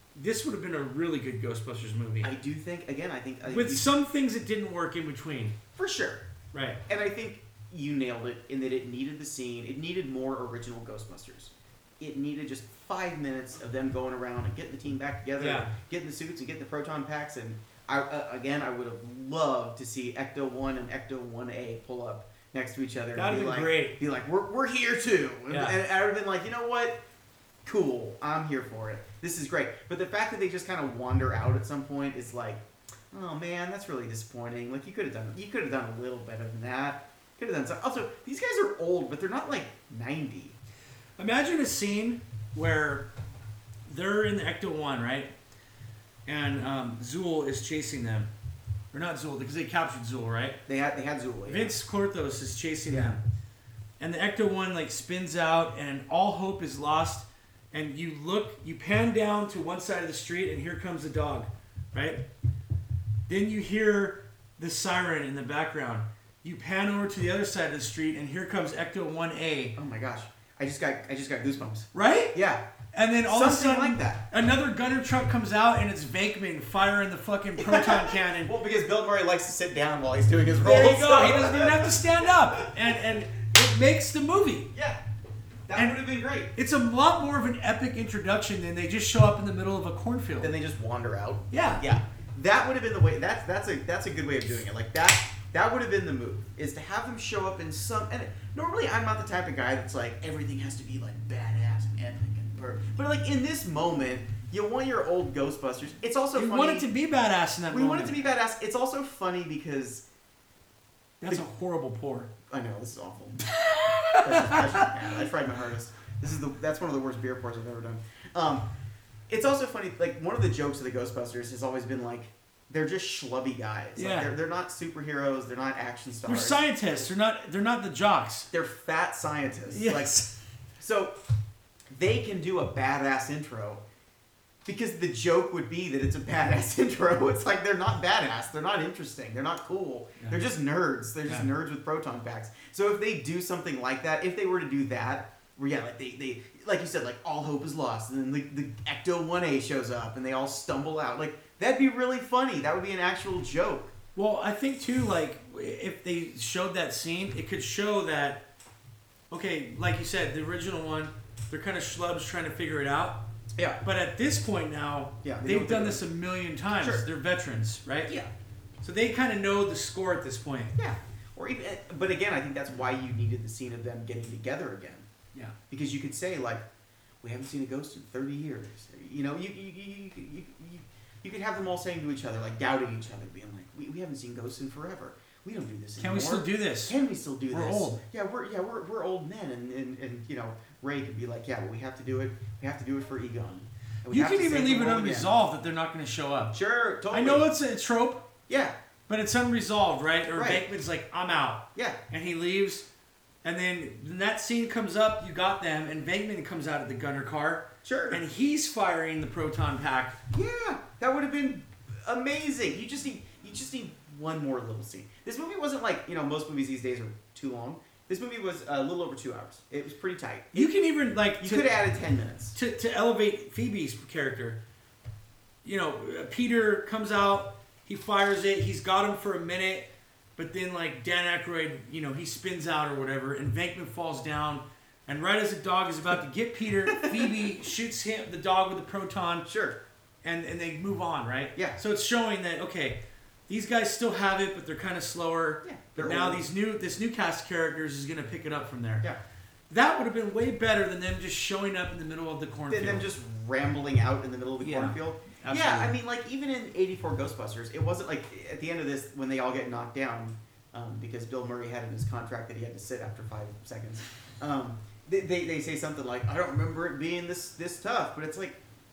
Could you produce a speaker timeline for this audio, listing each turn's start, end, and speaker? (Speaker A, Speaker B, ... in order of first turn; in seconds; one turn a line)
Speaker A: 0.1-2.3
Speaker B: 2.2-3.9
Speaker A: 3.5-5.5
Speaker B: 5.7-6.2
Speaker A: 6.5-6.8
Speaker B: 6.8-27.0
Speaker A: 15.4-15.7
Speaker A: 23.1-24.0
Speaker A: 25.5-25.8
Speaker B: 27.6-40.6
Speaker A: 41.2-43.1
Speaker A: 43.9-45.3
Speaker A: 46.2-48.3
Speaker A: 48.9-50.6
Speaker B: 50.7-51.7
Speaker A: 51.5-53.2
Speaker B: 52.9-53.2
Speaker A: 54.0-62.2
Speaker A: 63.3-69.8
Speaker B: 69.8-72.6
Speaker A: 71.9-72.3
Speaker A: 72.9-78.5
Speaker B: 73.2-74.2
Speaker B: 77.6-82.7
Speaker A: 80.6-84.7
Speaker B: 84.7-85.0
Speaker B: 85.7-86.5
Speaker A: 85.7-86.0
Speaker A: 86.5-90.5
Speaker B: 90.4-106.9
Speaker A: 91.5-91.8
Speaker A: 106.3-108.2
Speaker B: 107.7-110.0
Speaker A: 111.2-112.3
Speaker B: 112.5-113.5
Speaker A: 113.5-114.9
Speaker B: 114.2-118.7
Speaker B: 119.3-127.0
Speaker A: 124.0-124.3
Speaker A: 126.2-128.5
Speaker B: 128.5-130.1
Speaker A: 129.7-130.3
Speaker B: 130.8-131.2
Speaker B: 131.9-133.8
Speaker B: 134.6-153.9
Speaker A: 154.1-158.4
Speaker A: 159.3-163.2
Speaker B: 163.6-163.8
Speaker A: 163.8-168.1
Speaker B: 165.2-166.1
Speaker B: 166.8-167.0
Speaker B: 168.1-168.3
Speaker A: 168.8-170.7
Speaker B: 170.8-175.1
Speaker B: 175.7-176.6
Speaker B: 177.2-195.3
Speaker A: 186.0-186.9
Speaker A: 187.5-188.0
Speaker A: 194.1-196.5
Speaker B: 196.5-197.5
Speaker A: 197.1-198.2
Speaker B: 198.5-198.7
Speaker A: 199.1-202.8
Speaker B: 200.3-200.6
Speaker B: 201.7-202.0
Speaker A: 203.4-210.2
Speaker B: 207.8-208.2
Speaker B: 210.3-220.7
Speaker A: 220.5-221.8
Speaker B: 221.4-222.6
Speaker A: 222.5-224.6
Speaker A: 225.6-239.5
Speaker B: 236.9-237.3
Speaker B: 239.4-239.8
Speaker A: 240.2-249.1
Speaker B: 245.6-246.5
Speaker A: 249.7-253.1
Speaker B: 252.7-268.6
Speaker A: 254.6-255.9